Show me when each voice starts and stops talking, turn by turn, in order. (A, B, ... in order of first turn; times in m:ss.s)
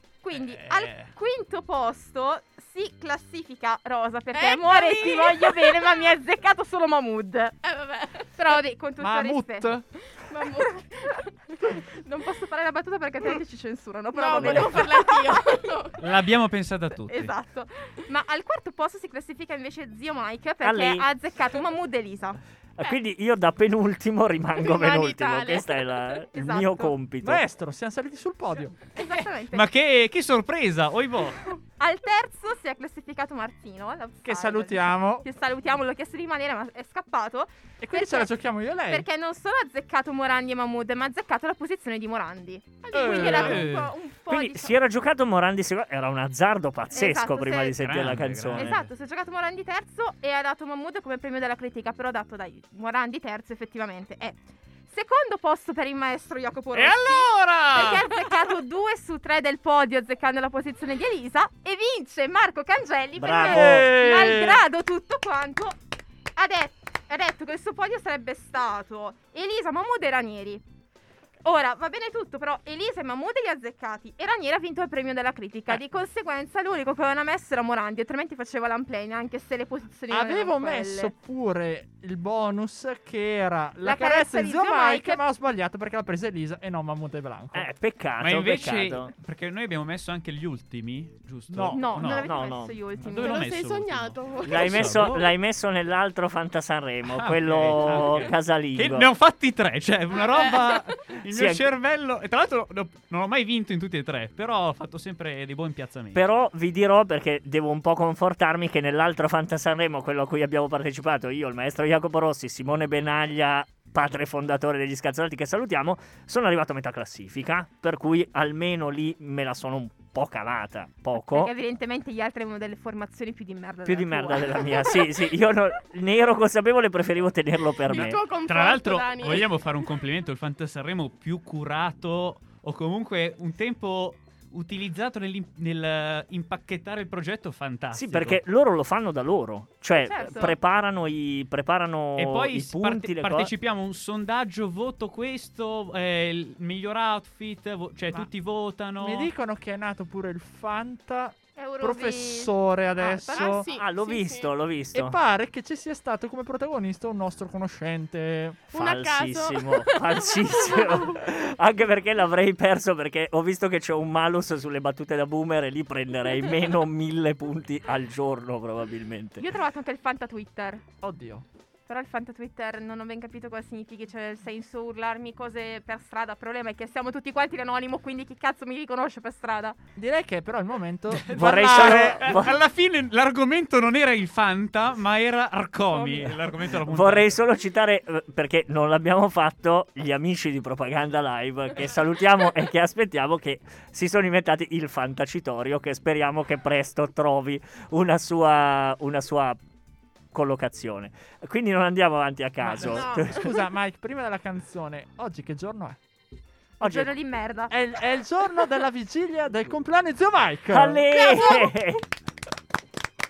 0:00.2-0:07.6 A
0:00.3-0:01.1 B
0:04.3-0:06.1 C
0:07.6-0:08.6 C
0:08.3-0:09.7 A
0:09.0-0:09.9 D
0:10.0-0:11.7 C
0:11.0-0:15.6 A
0:14.1-0:16.0 C
0:16.0-0:17.3 B
0:17.1-0:22.4 A
0:20.6-0:21.0 E
0:22.8-0:27.4 E
0:24.6-0:25.8 C
0:26.3-0:26.9 A
0:27.2-0:28.8 D
0:28.9-0:29.7 A
0:29.1-0:31.4 B
0:31.8-0:38.4 A
0:34.2-0:35.2 D
0:37.8-0:39.0 D
0:38.9-0:44.8 A
0:42.8-0:43.6 C
0:42.9-0:43.6 D
0:43.2-0:43.9 B
0:44.3-0:48.8 E
0:46.9-0:47.8 A
0:47.8-0:48.8 B
0:48.5-1:05.8 A
0:56.7-0:58.5 B
1:03.2-1:03.9 E
1:03.4-1:04.6 D
1:06.3-1:10.6 A
1:11.4-1:21.1 A
1:20.1-1:27.7 D
1:23.8-1:25.2 A
1:27.5-1:29.1 E
1:28.2-1:32.3 B
1:31.5-1:32.1 D
1:31.7-1:33.4 A
1:32.1-1:32.8 E
1:33.1-1:35.3 B
1:33.1-1:35.1 C
1:34.4-1:39.1 E
1:37.0-1:46.2 B
1:40.3-1:40.8 C
1:41.2-1:41.6 E
1:46.1-2:01.5 E
2:01.2-2:04.8 A
2:03.8-2:08.2 E
2:07.8-2:09.5 C
2:07.9-2:18.4 B
2:17.9-2:23.5 E
2:20.0-2:20.5 A
2:22.2-2:29.3 B
2:29.0-2:33.6 D
2:31.6-2:33.6 A
2:33.0-2:34.5 C
2:33.7-2:35.2 E
2:34.9-2:38.7 D
2:38.7-2:41.2 C
2:38.7-2:49.4 E
2:49.4-2:50.8 A
2:51.0-2:51.4 D
2:51.9-2:59.8 A
3:00.0-3:02.3 D
3:01.1-3:07.4 B
3:01.3-3:02.6 E
3:05.9-3:06.3 A
3:06.8-3:19.6 E
3:20.3-3:23.6 E
3:22.6-3:26.0 D
3:22.8-3:23.6 A
3:26.8-3:27.7 A
3:26.8-3:27.1 E
3:27.7-3:31.1 D
3:30.7-3:32.0 E
3:31.4-3:31.6 C